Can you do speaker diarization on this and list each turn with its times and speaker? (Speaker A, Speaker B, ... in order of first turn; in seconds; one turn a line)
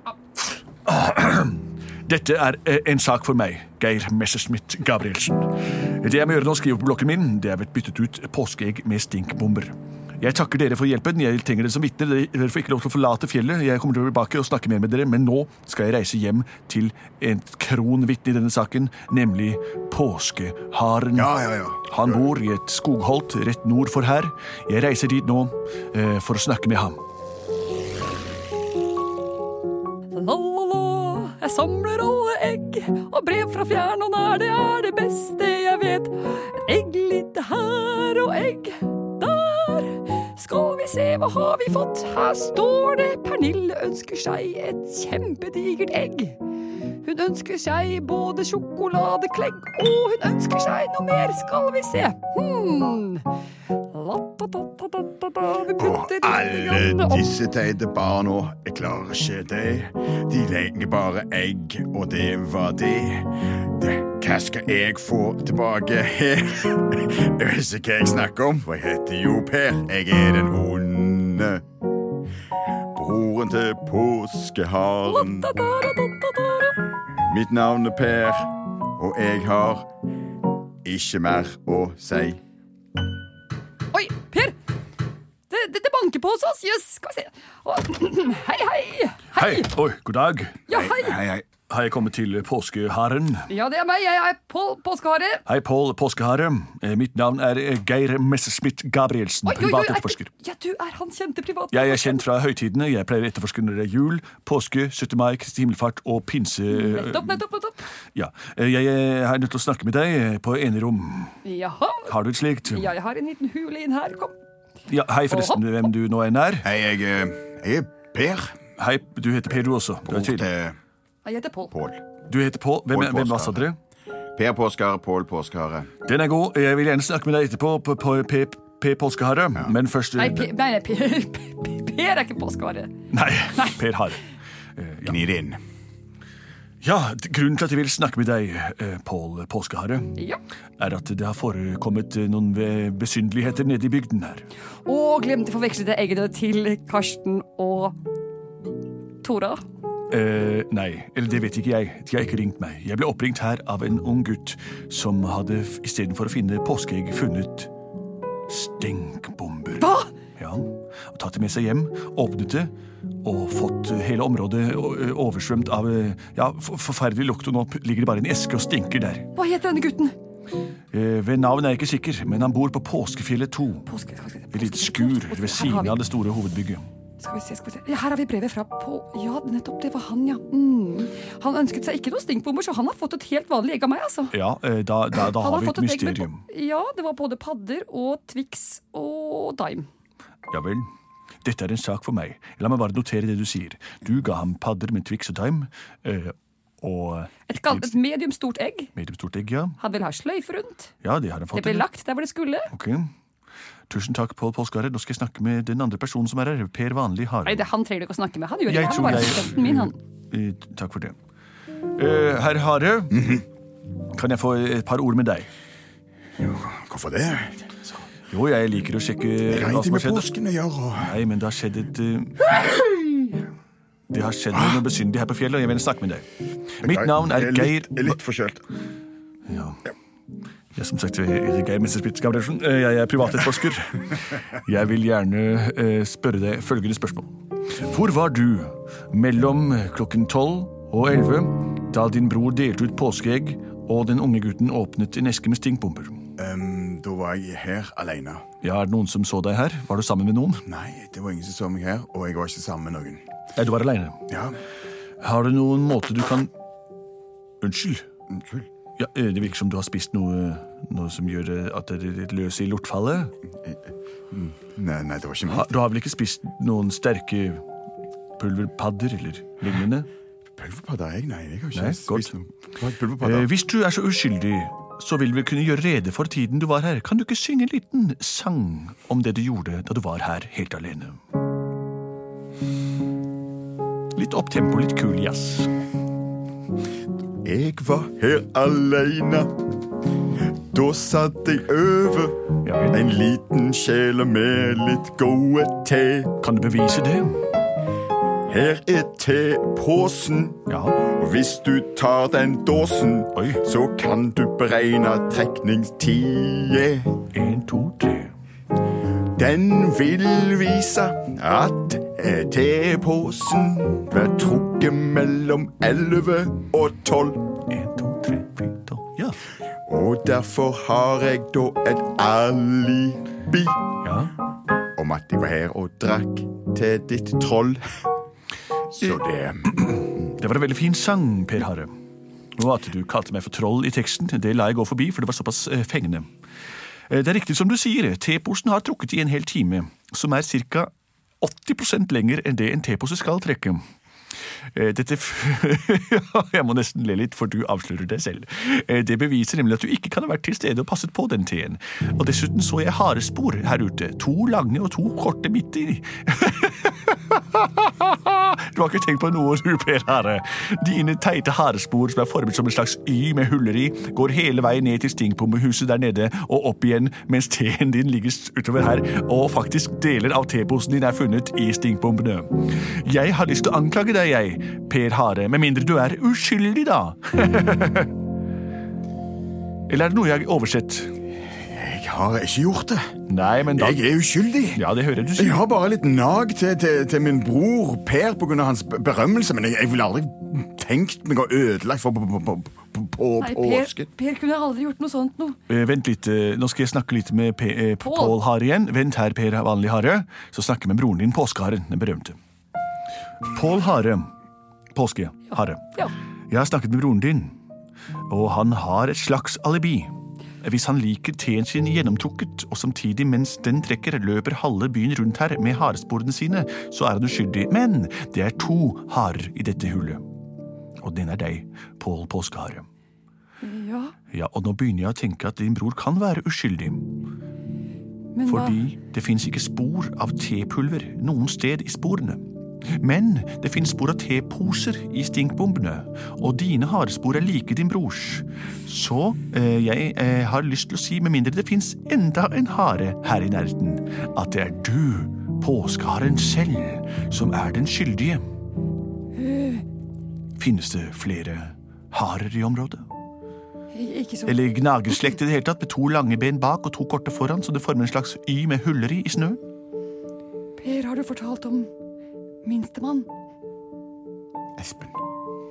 Speaker A: 0.8-27.0
Speaker B: 21.1-22.3
Speaker C: 30.1-46.4
Speaker C: 47.0-53.2
Speaker C: 53.9-57.2
Speaker B: 55.7-71.6
Speaker B: 72.9-75.5
Speaker C: 75.0-76.8
Speaker B: 77.1-79.9
Speaker B: 80.8-82.4
Speaker C: 83.9-84.5
Speaker C: 85.5-89.7
Speaker A: 89.3-90.6
Speaker C: 90.7-91.2
Speaker B: 90.7-91.4
Speaker A: 91.7-93.5
Speaker C: 93.5-95.4
Speaker A: 95.5-100.3
Speaker C: 99.5-102.2
Speaker A: 101.7-107.4
Speaker C: 106.7-107.9
Speaker A: 108.1-111.4
Speaker C: 111.4-112.1
Speaker A: 112.0-112.9
Speaker C: 112.7-114.3
Speaker A: 114.9-116.7
Speaker C: 115.3-115.8
Speaker B: 116.6-118.6
Speaker A: 118.8-120.5
Speaker B: 120.0-120.8
Speaker C: 121.2-121.7
Speaker B: 121.7-122.0
Speaker A: 122.3-123.8
Speaker B: 122.9-123.6
Speaker B: 124.3-125.9
Speaker A: 126.0-130.5
Speaker C: 130.2-132.9
Speaker A: 133.1-134.2
Speaker A: 134.8-135.2
Speaker B: 135.0-135.6
Speaker A: 136.8-140.2
Speaker A: 140.8-144.4
Speaker C: 144.8-147.9
Speaker C: 149.2-149.6
Speaker A: 150.1-157.7
Speaker A: 158.5-169.3
Speaker C: 159.8-160.1
Speaker C: 169.3-170.1
Speaker A: 170.9-173.9
Speaker C: 173.8-176.0
Speaker A: 174.5-176.9
Speaker C: 177.2-184.3
Speaker A: 184.3-186.4
Speaker C: 185.3-189.9
Speaker A: 190.5-190.9
Speaker A: 191.4-197.9
Speaker C: 197.5-198.9
Speaker A: 198.9-199.8
Speaker C: 199.8-200.9
Speaker A: 201.0-201.8
Speaker C: 201.5-202.7
Speaker A: 202.7-203.1
Speaker A: 203.9-207.7
Speaker C: 207.4-209.9
Speaker A: 208.7-211.2
Speaker A: 211.9-213.4
Speaker B: 213.1-213.4
Speaker A: 214.1-215.5
Speaker B: 216.4-217.7
Speaker A: 218.3-220.3
Speaker B: 219.5-221.2
Speaker A: 221.0-222.4
Speaker B: 222.5-223.3
Speaker A: 224.1-226.2
Speaker B: 224.5-224.8
Speaker A: 226.8-228.2
Speaker B: 226.8-228.6
Speaker A: 229.4-229.8
Speaker A: 230.7-246.3
Speaker B: 246.4-248.4
Speaker A: 248.6-250.6
Speaker B: 250.6-253.2
Speaker A: 253.5-254.2
Speaker B: 254.3-254.6
Speaker A: 255.2-256.5
Speaker A: 257.6-258.1
Speaker B: 258.3-258.7
Speaker A: 259.0-263.3
Speaker B: 263.6-265.7
Speaker A: 265.5-267.6
Speaker A: 268.4-270.1
Speaker B: 270.6-273.5
Speaker A: 271.7-272.3
Speaker A: 273.2-281.2
Speaker A: 284.1-285.7
Speaker B: 287.4-289.6
Speaker B: 290.7-296.4
Speaker A: 292.6-293.0
Speaker A: 296.4-297.4
Speaker B: 298.4-307.2
Speaker A: 300.7-301.0
Speaker A: 303.3-303.6
Speaker A: 307.3-308.3
Speaker B: 309.2-317.6
Speaker A: 317.7-319.4
Speaker B: 319.8-323.9
Speaker A: 324.0-324.3
Speaker B: 324.9-327.8
Speaker B: 328.9-330.1
Speaker A: 330.3-331.9
Speaker A: 332.6-336.3
Speaker A: 337.1-343.8
Speaker A: 344.7-378.1
Speaker A: 379.9-381.1
Speaker B: 381.6-383.1
Speaker A: 383.3-384.0
Speaker B: 383.7-384.8
Speaker A: 384.7-385.6
Speaker B: 385.4-394.1
Speaker C: 393.4-395.6
Speaker A: 395.7-402.4
Speaker C: 398.0-398.4
Speaker A: 403.4-404.3
Speaker A: 404.9-407.6
Speaker A: 408.3-420.2
Speaker A: 421.0-422.9
Speaker C: 423.6-424.1
Speaker A: 424.3-427.2
Speaker C: 428.3-428.8
Speaker A: 428.4-432.4
Speaker A: 432.9-448.4
Speaker C: 449.4-449.8
Speaker A: 450.6-453.1
Speaker C: 453.9-454.6
Speaker A: 454.4-459.6
Speaker C: 460.8-461.9
Speaker C: 462.6-463.3
Speaker B: 464.8-465.2